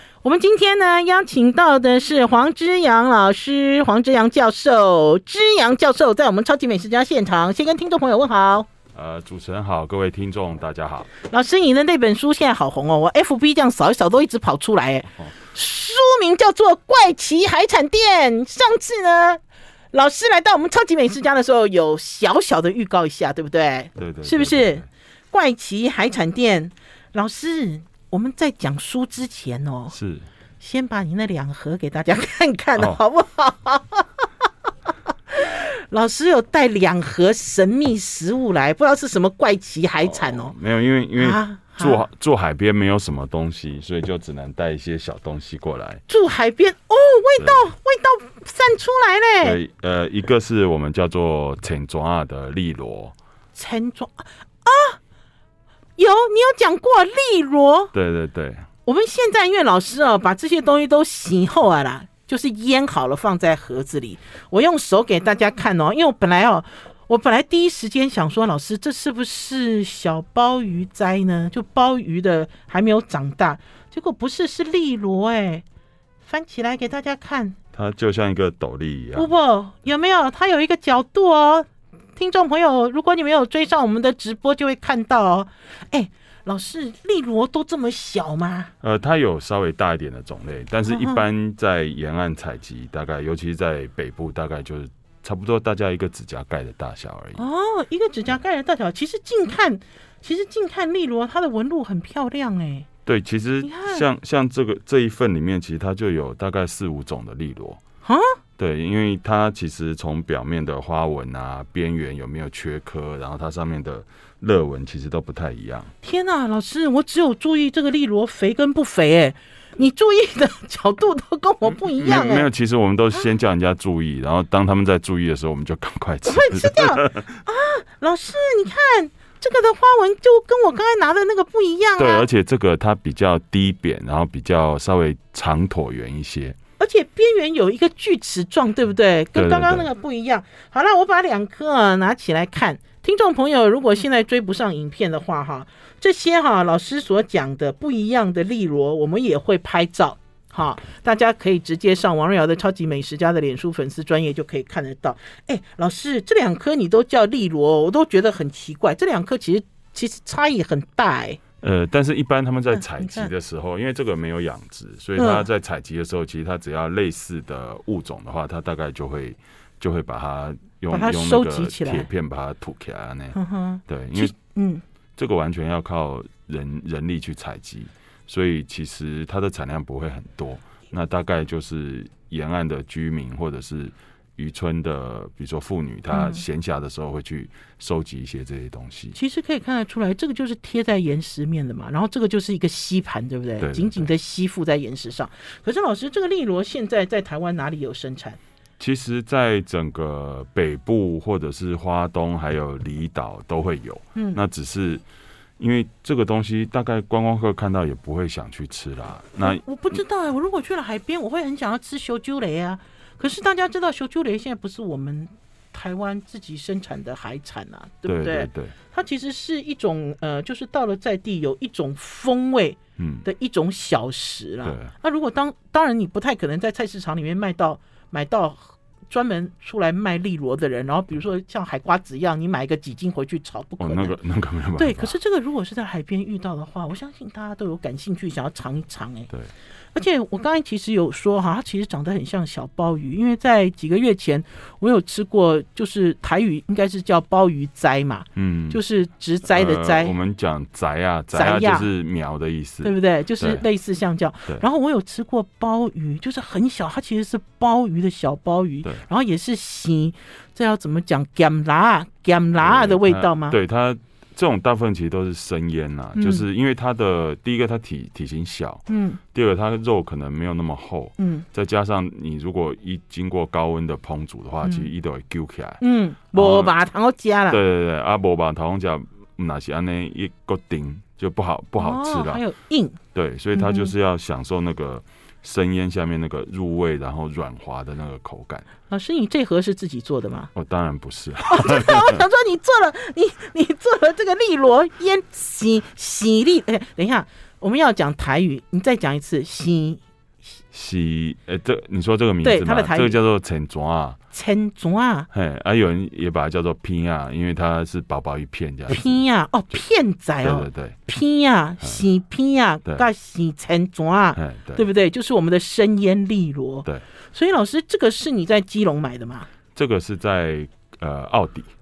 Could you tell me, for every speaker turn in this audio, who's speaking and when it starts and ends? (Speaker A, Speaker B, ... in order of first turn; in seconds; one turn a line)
Speaker A: 0.2-8.7
Speaker B: 8.9-11.1
Speaker A: 11.2-19.4
Speaker A: 19.9-29.9
Speaker B: 24.0-24.9
Speaker B: 29.9-30.2
Speaker A: 30.6-34.2
Speaker A: 35.3-40.5
Speaker B: 40.0-46.0
Speaker A: 41.2-42.0
Speaker A: 46.1-49.6
Speaker B: 47.4-47.7
Speaker B: 49.4-53.1
Speaker A: 53.5-55.0
Speaker A: 56.0-57.9
Speaker B: 57.9-58.7
Speaker A: 58.9-75.7
Speaker A: 76.2-77.6
Speaker B: 77.7-79.3
Speaker A: 79.2-88.7
Speaker B: 88.8-97.4
Speaker A: 90.9-91.2
Speaker A: 97.4-102.9
Speaker B: 103.1-107.8
Speaker A: 103.6-104.1
Speaker A: 108.0-108.4
Speaker B: 108.6-115.9
Speaker A: 116.0-122.5
Speaker B: 121.9-127.2
Speaker A: 126.2-132.2
Speaker B: 132.0-136.6
Speaker A: 136.8-161.4
Speaker B: 139.4-139.9
Speaker B: 161.6-174.3
Speaker A: 162.8-163.3
Speaker A: 165.2-165.5
Speaker A: 170.9-172.1
Speaker A: 173.3-174.8
Speaker B: 175.2-189.2
Speaker A: 186.1-186.4
Speaker A: 189.2-198.4
Speaker B: 193.6-194.1
Speaker B: 198.8-205.0
Speaker A: 204.2-204.4
Speaker B: 205.6-209.6
Speaker A: 209.4-234.2
Speaker B: 218.1-218.7
Speaker B: 223.0-223.2
Speaker B: 224.6-224.9
Speaker B: 233.8-235.1
Speaker A: 234.8-239.3
Speaker A: 239.9-250.1
Speaker B: 248.4-248.8
Speaker B: 249.5-253.6
Speaker A: 251.3-251.9
Speaker A: 252.8-263.6
Speaker B: 262.6-275.8
Speaker A: 266.2-266.4
Speaker A: 268.9-269.2
Speaker A: 271.2-271.4
Speaker A: 275.8-277.6
Speaker B: 276.3-276.7
Speaker B: 277.5-282.4
Speaker A: 281.8-283.0
Speaker B: 283.1-288.7
Speaker A: 283.6-283.9
Speaker A: 288.9-290.5
Speaker B: 290.5-292.2
Speaker A: 291.4-300.0
Speaker B: 300.7-304.2
Speaker A: 302.4-303.2
Speaker A: 304.3-305.3
Speaker B: 305.3-309.2
Speaker A: 308.9-319.5
Speaker B: 310.4-311.0
Speaker B: 314.4-314.8
Speaker B: 319.8-321.7